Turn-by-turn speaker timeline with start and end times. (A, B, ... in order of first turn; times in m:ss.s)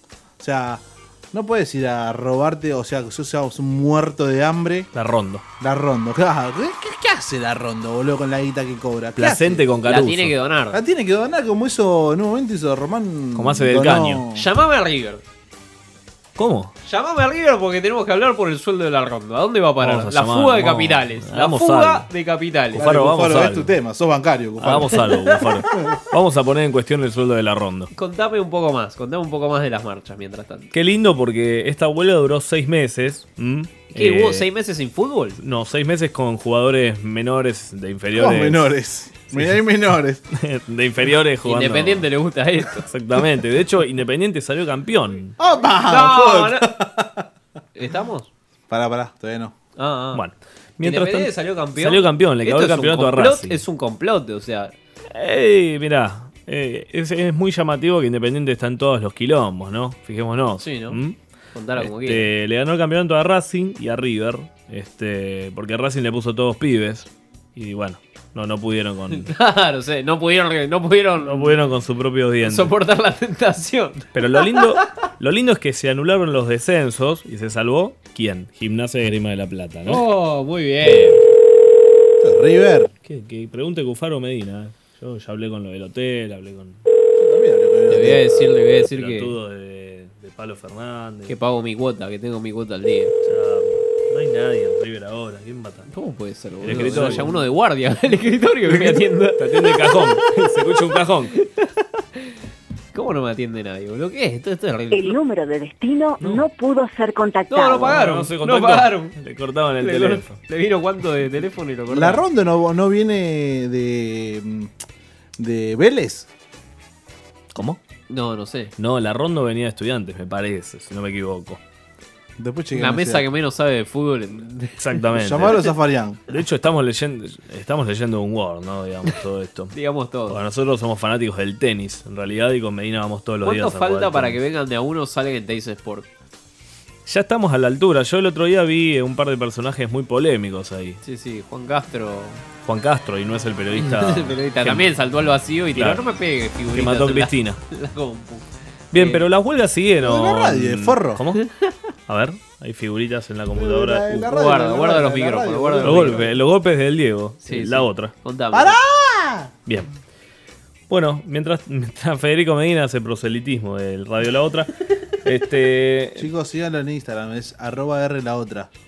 0:00.4-0:04.9 A
0:04.9-0:05.4 B
0:05.6-0:09.6 A
0:09.2-0:10.3 B
0:09.8-0:10.8 C
0:10.7-0:14.5 A
0:13.3-0:14.2 B
0:14.3-0:15.2 C
0:16.4-0:16.7 B
0:16.8-0:22.9 C
0:19.8-0:22.0 B
0:22.7-0:25.4 A
0:22.7-0:23.7 B
0:24.6-0:27.9 B
0:27.9-0:30.7 C
0:30.7-0:34.4 B
0:33.9-0:35.4 C
0:35.4-0:38.7 B
0:38.1-0:40.2 A
0:39.3-0:39.6 B
0:40.3-0:42.1 B
0:41.4-0:42.8 C
0:42.9-0:45.3 B
0:45.4-0:47.2 A
0:45.8-0:46.7 C
0:47.8-0:48.3 C
0:48.7-0:49.5 A
0:49.8-0:50.2 C
0:50.1-0:53.6 B
0:50.8-0:54.7 C
0:55.1-1:01.2 B
1:00.6-1:01.0 C
1:01.5-1:02.3 C
1:01.8-1:09.3 B
1:09.1-1:11.6 C
1:11.2-1:12.7 B
1:12.4-1:14.8 C
1:14.1-1:20.0 B
1:19.8-1:21.2 C
1:22.2-1:22.9 A
1:23.0-1:26.8 B
1:27.2-1:28.4 A
1:27.9-1:29.3 C
1:28.8-1:31.3 B
1:31.3-1:33.1 C
1:33.2-1:35.9 B
1:35.9-1:40.2 C
1:36.6-1:37.4 B
1:38.7-1:41.3 B
1:42.9-1:45.2 C
1:45.4-1:47.6 D
1:46.2-1:46.4 B
1:47.5-1:49.1 C
1:47.8-1:50.4 B
1:49.8-1:52.2 C
1:51.9-1:54.7 A
1:55.4-1:56.3 A
1:57.5-1:57.8 B
1:58.1-1:58.7 C
1:58.8-2:01.6 B
2:02.4-2:03.3 A
2:02.7-2:04.7 C
2:04.8-2:05.6 B
2:05.2-2:06.2 A
2:06.3-2:09.7 B
2:09.7-2:10.4 C
2:10.3-2:14.4 B
2:13.4-2:16.1 C
2:17.0-2:21.0 B
2:21.0-2:22.4 C
2:22.6-2:24.9 B
2:23.7-2:29.2 C
2:25.7-2:26.0 B
2:26.7-2:27.6 B
2:28.9-2:31.4 B
2:30.0-2:31.2 A
2:32.1-2:34.2 B
2:33.5-2:36.3 A
2:34.2-2:36.3 C
2:35.8-2:38.1 B
2:37.4-2:38.8 C
2:38.5-2:39.5 A
2:40.9-2:44.7 B
2:45.2-2:46.3 B
2:46.2-2:48.7 A